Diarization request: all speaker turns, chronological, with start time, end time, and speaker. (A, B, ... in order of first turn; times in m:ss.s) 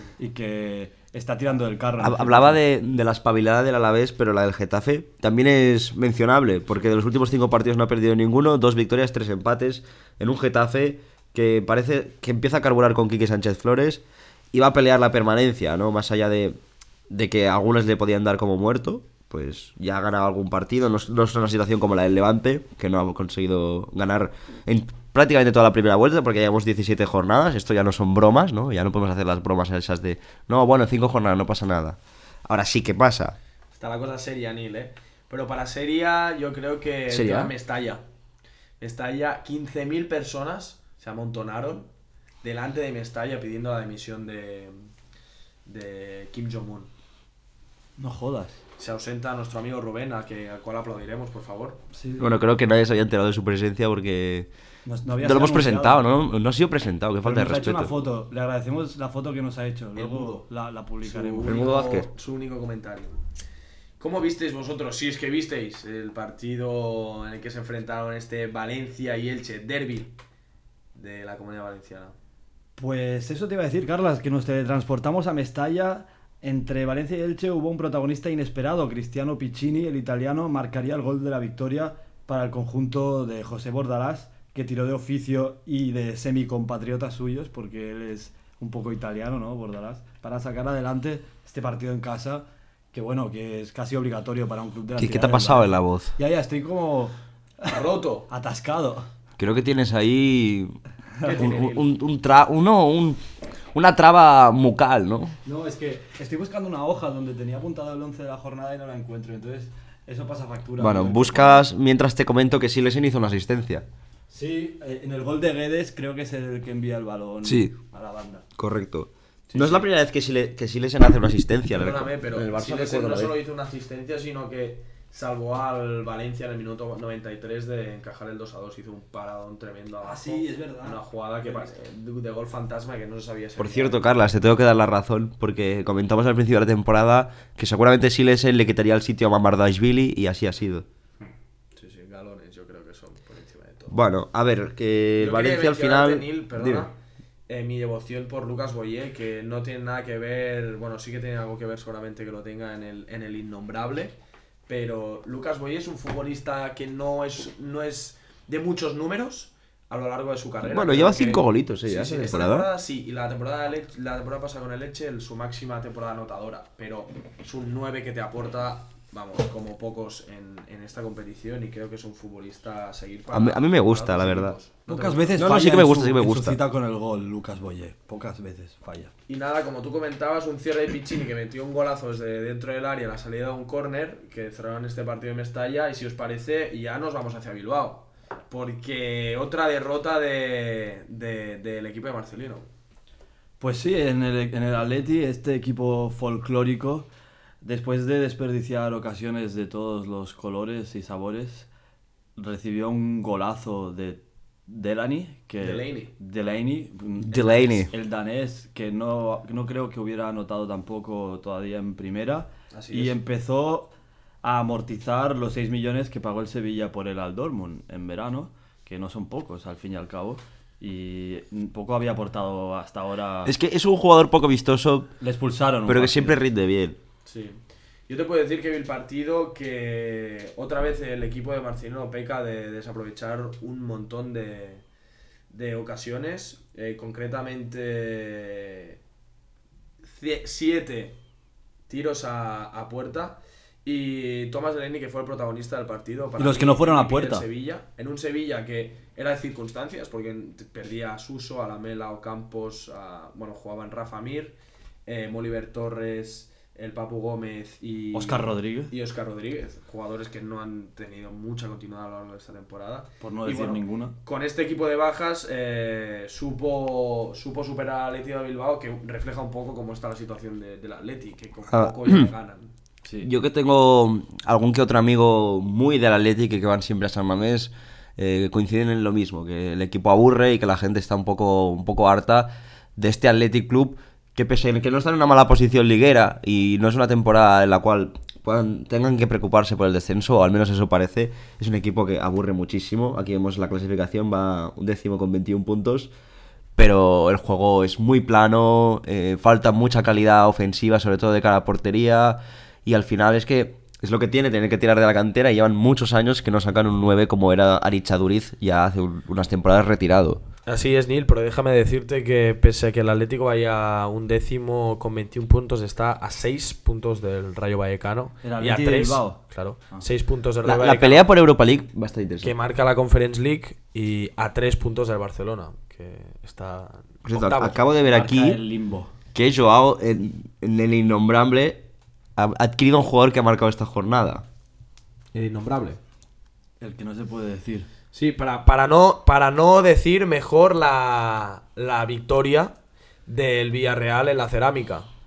0:00.2-0:02.6 A
0:02.0-0:16.6 B
0:17.1-0:33.4 B
0:33.7-0:38.0 C
0:37.1-0:37.5 B
0:38.8-0:41.9 C
0:42.4-0:44.8 C
0:45.7-0:46.9 C
0:48.0-0:48.6 A
0:48.8-0:51.8 C
0:51.9-0:52.3 A
0:52.2-0:54.5 B
0:54.9-0:56.0 A
0:55.2-0:58.0 B
0:57.2-1:01.7 A
1:00.0-1:00.4 C
1:01.0-1:03.2 C
1:01.4-1:02.1 B
1:04.0-1:10.1 C
1:11.0-1:12.1 C
1:12.8-1:39.1 A
1:35.0-1:36.1 B
1:37.7-1:38.3 C
1:39.4-1:40.8 B
1:41.2-1:41.5 A
1:41.2-1:41.8 C
1:41.3-1:43.2 B
1:43.7-1:45.4 B
1:45.4-1:51.7 A
1:50.8-1:53.8 B
1:54.3-1:58.4 A
1:57.4-1:57.7 B
1:58.6-2:03.4 B
1:59.5-1:59.9 C
2:01.7-2:14.0 C
2:10.0-2:11.7 A
2:13.6-2:20.9 B
2:21.8-2:24.0 C
2:23.9-2:26.9 B
2:25.2-2:27.0 C
2:27.5-2:34.2 C
2:34.7-2:55.4 C
2:40.6-2:42.7 B
2:53.3-2:54.6 B
2:54.9-2:59.1 A
2:55.4-2:56.6 B
2:59.3-3:12.7 C
3:13.6-3:17.1 A
3:17.6-3:21.7 A
3:22.4-3:33.9 A
3:25.6-3:26.1 C
3:27.2-3:27.9 B
3:32.7-3:33.2 C
3:34.4-3:43.5 A
3:43.5-3:45.1 B
3:45.2-3:46.4 A
3:45.9-3:47.0 B
3:47.3-3:54.8 C
3:55.5-3:59.0 C
4:00.1-4:01.2 C
4:01.9-4:32.7 C
4:06.4-4:07.4 A
4:18.1-4:18.9 A
4:23.2-4:24.2 A
4:31.7-4:32.3 B
4:33.0-4:33.3 A
4:33.2-4:56.1 B
4:56.8-5:10.4 B
5:10.7-5:21.3 C
5:18.4-5:19.4 A
5:20.6-5:22.5 B
5:22.4-5:27.8 C
5:27.2-5:28.6 B
5:28.0-5:29.1 A
5:29.3-5:31.8 B
5:32.4-5:34.4 B
5:35.3-5:36.0 C
5:36.8-5:37.9 A
5:38.1-5:42.7 C
5:43.3-5:45.1 C